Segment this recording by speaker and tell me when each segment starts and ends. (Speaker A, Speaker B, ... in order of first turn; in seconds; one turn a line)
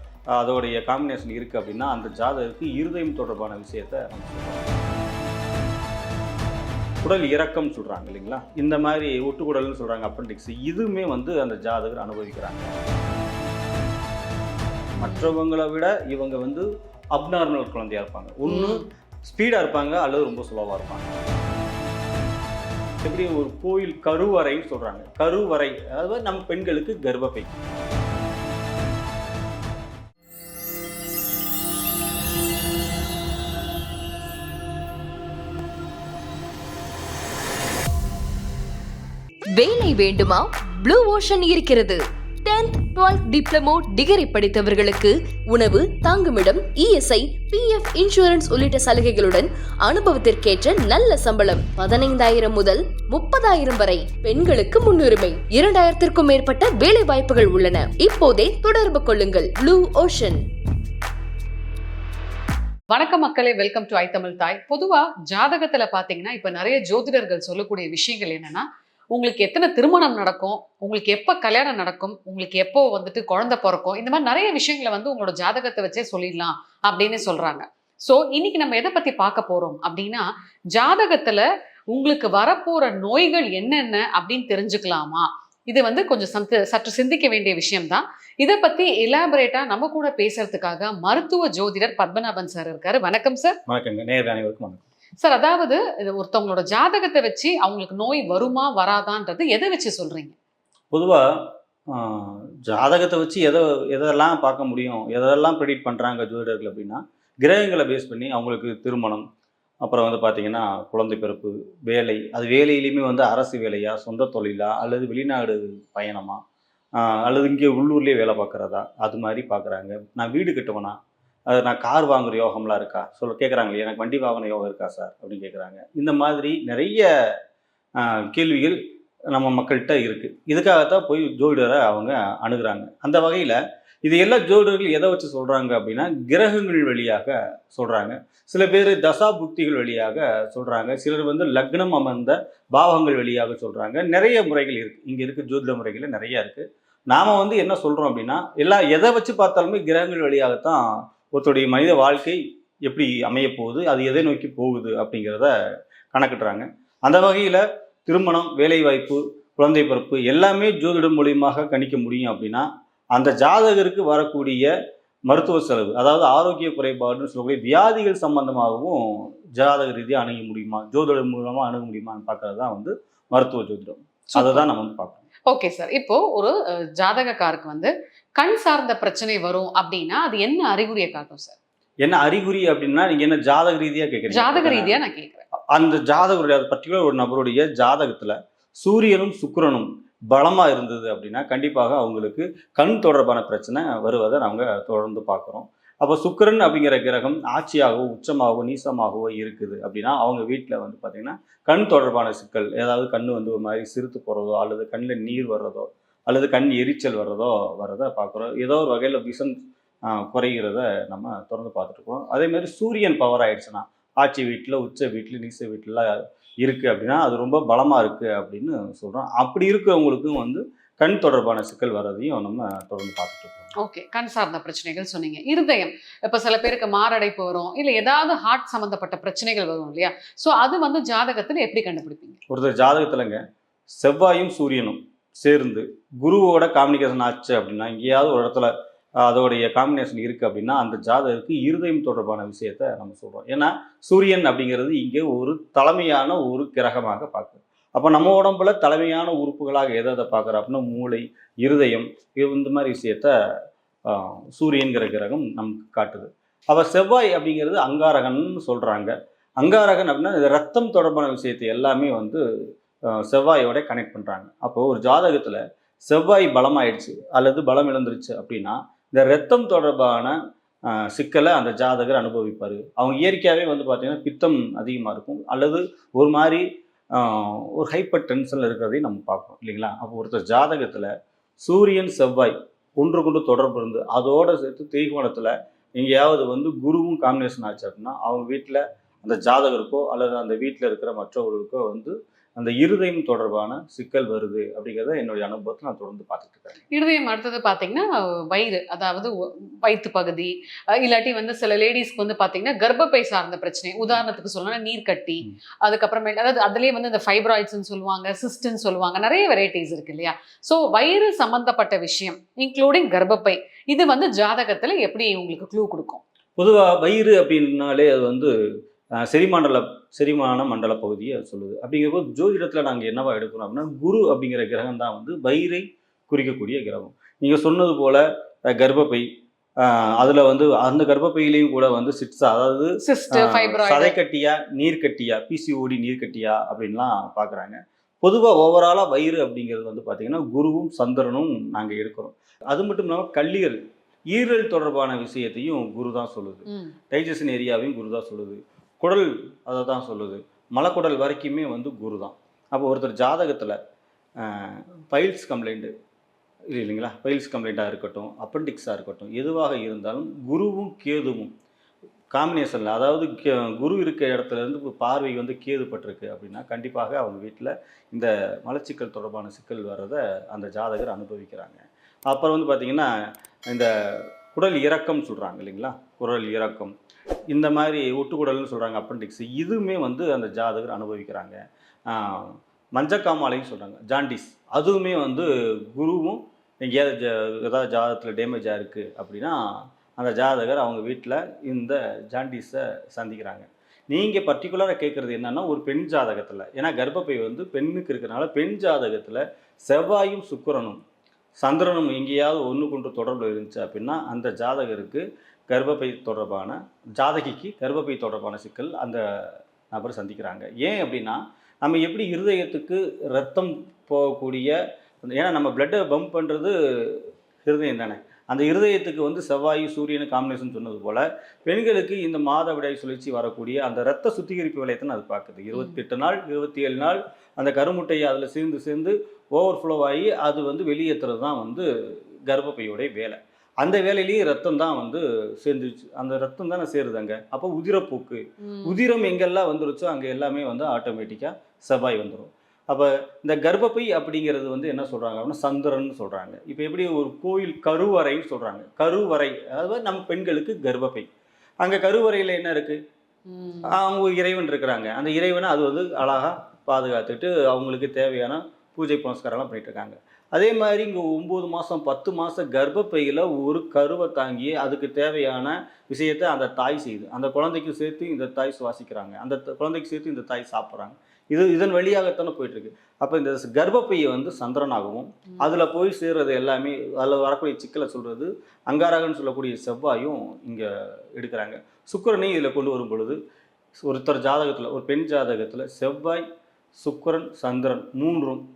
Speaker A: 0.3-4.6
Speaker A: 7.0-12.7
Speaker A: 15.0-21.1
Speaker B: 15.0-15.4
Speaker B: 18.5-18.8
Speaker A: 23.0-27.6
Speaker C: 39.5-60.4
Speaker B: 62.9-68.6
Speaker B: 69.1-93.6
Speaker A: 93.7-94.8
Speaker B: 95.2-100.3
Speaker A: 100.9-101.2
Speaker A: 101.9-109.2
Speaker A: 109.8-116.4
Speaker A: 117.0-121.0
Speaker A: 121.5-127.1
Speaker A: 128.0-128.8
Speaker A: 129.3-150.8
Speaker A: 151.3-155.5
Speaker A: 156.1-164.7
Speaker A: 165.3-169.0
Speaker A: 169.6-175.2
Speaker B: 174.3-174.7
Speaker B: 175.5-181.6
Speaker A: 182.0-185.0
Speaker B: 184.3-185.4
Speaker A: 185.7-223.7
Speaker B: 223.8-232.4
Speaker A: 232.5-233.4
Speaker A: 233.9-238.7
Speaker A: 239.2-253.3
Speaker A: 254.1-262.4
Speaker A: 263.2-270.4
Speaker A: 270.9-281.1
Speaker A: 281.6-296.8
Speaker B: 296.9-316.2
Speaker A: 316.6-318.5
Speaker A: 319.2-329.2
Speaker A: 329.8-343.8
Speaker B: 333.0-334.1
Speaker A: 344.3-353.8
Speaker A: 354.4-355.9
Speaker A: 356.7-361.5
Speaker A: 362.3-373.1
Speaker A: 373.7-376.9
Speaker A: 377.5-389.6
Speaker A: 390.1-401.0
Speaker A: 401.6-431.9
Speaker B: 425.7-426.0
Speaker A: 432.5-451.3
Speaker B: 438.6-439.0
Speaker A: 451.8-453.0
Speaker B: 453.5-453.9
Speaker A: 453.9-483.4
Speaker A: 484.0-486.4
Speaker A: 487.0-488.6